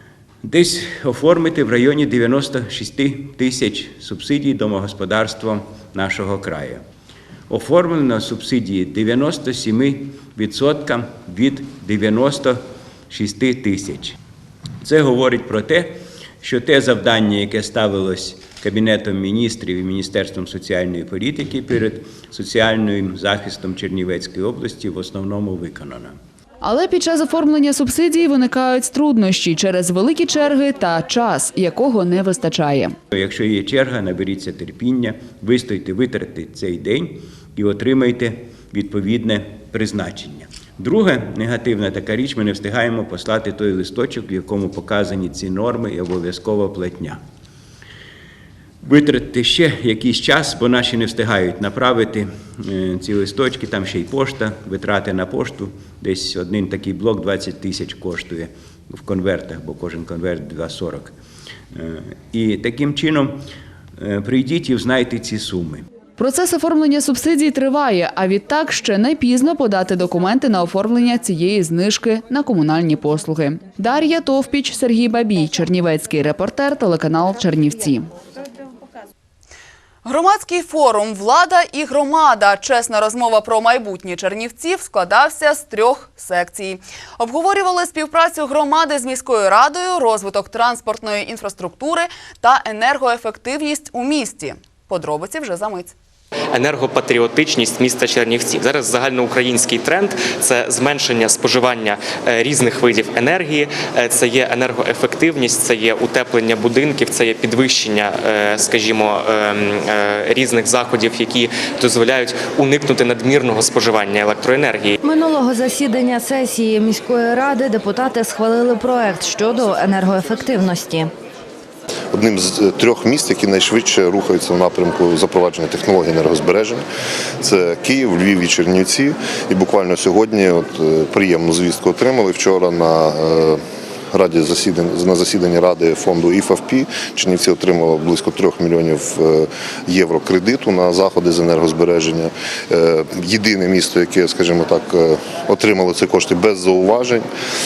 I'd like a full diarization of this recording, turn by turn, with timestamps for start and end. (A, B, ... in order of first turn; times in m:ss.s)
0:00.4-0:06.8 A
0:07.5-0:14.2 A
0:14.8-0:26.1 A
0:26.6-0:32.9 B
0:33.1-0:47.2 A
0:48.8-1:01.1 A
1:01.7-1:03.4 A
1:04.0-1:05.8 A
1:06.2-1:18.1 B
1:20.0-1:35.9 B
1:36.5-1:55.0 C
1:55.0-2:01.1 D
2:02.1-2:06.8 E
2:07.4-2:13.6 E
2:14.1-2:27.2 E